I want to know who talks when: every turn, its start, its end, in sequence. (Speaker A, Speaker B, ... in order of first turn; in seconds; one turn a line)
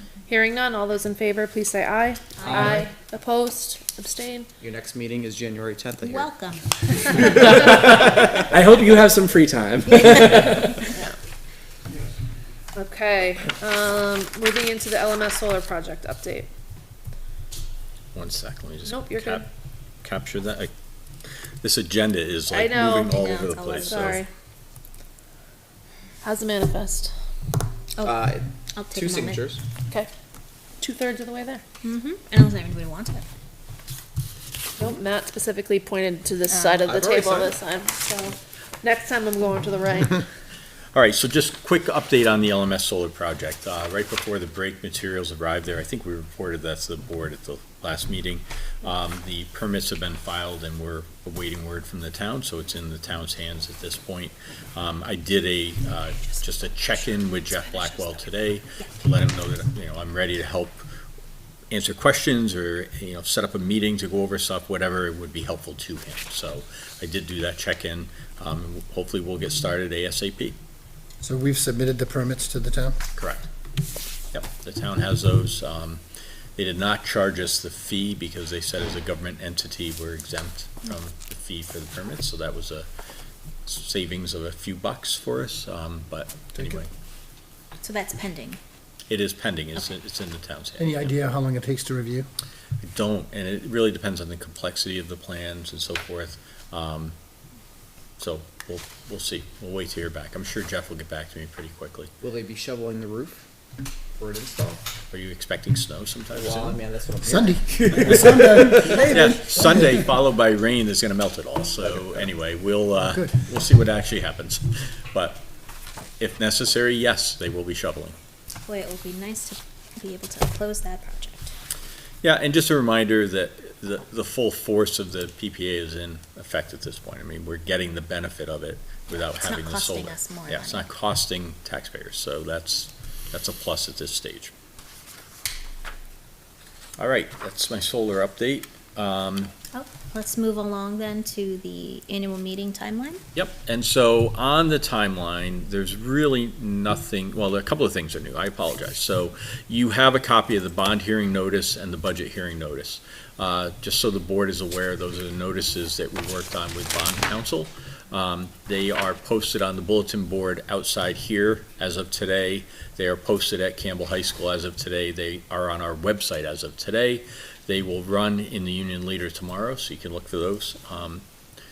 Speaker A: 0.3-4.5
Speaker B: 2.4-2.8
Speaker C: 2.5-2.8
Speaker C: 4.6-6.3
Speaker B: 6.0-7.3
Speaker C: 7.1-7.6
Speaker D: 7.4-10.9
Speaker A: 10.8-11.1
Speaker A: 12.7-16.5
Speaker E: 18.1-19.4
Speaker A: 18.8-19.4
Speaker E: 20.0-20.7
Speaker E: 21.6-24.2
Speaker A: 22.5-23.2
Speaker B: 23.1-24.2
Speaker A: 23.8-24.3
Speaker A: 26.2-27.1
Speaker B: 28.0-29.4
Speaker C: 28.0-29.6
Speaker A: 30.8-31.6
Speaker B: 31.8-33.2
Speaker A: 34.8-40.2
Speaker B: 36.5-36.9
Speaker C: 36.8-37.6
Speaker E: 40.9-60.8
Speaker E: 61.7-70.5
Speaker F: 71.2-73.0
Speaker E: 73.2-73.5
Speaker E: 74.3-76.0
Speaker E: 76.6-82.9
Speaker E: 83.7-86.9
Speaker F: 86.5-86.8
Speaker B: 87.8-88.6
Speaker E: 89.1-91.2
Speaker F: 90.8-92.3
Speaker E: 92.8-97.1
Speaker E: 98.2-102.1
Speaker C: 102.2-103.4
Speaker C: 104.1-104.8
Speaker E: 105.1-106.8
Speaker C: 106.3-109.0
Speaker F: 107.2-110.1
Speaker E: 108.0-115.4
Speaker F: 113.0-113.4
Speaker E: 116.2-118.2
Speaker B: 118.7-121.5
Speaker E: 122.2-134.5
Speaker B: 129.1-130.9
Speaker E: 137.0-139.5
Speaker B: 139.7-143.2
Speaker E: 143.3-171.2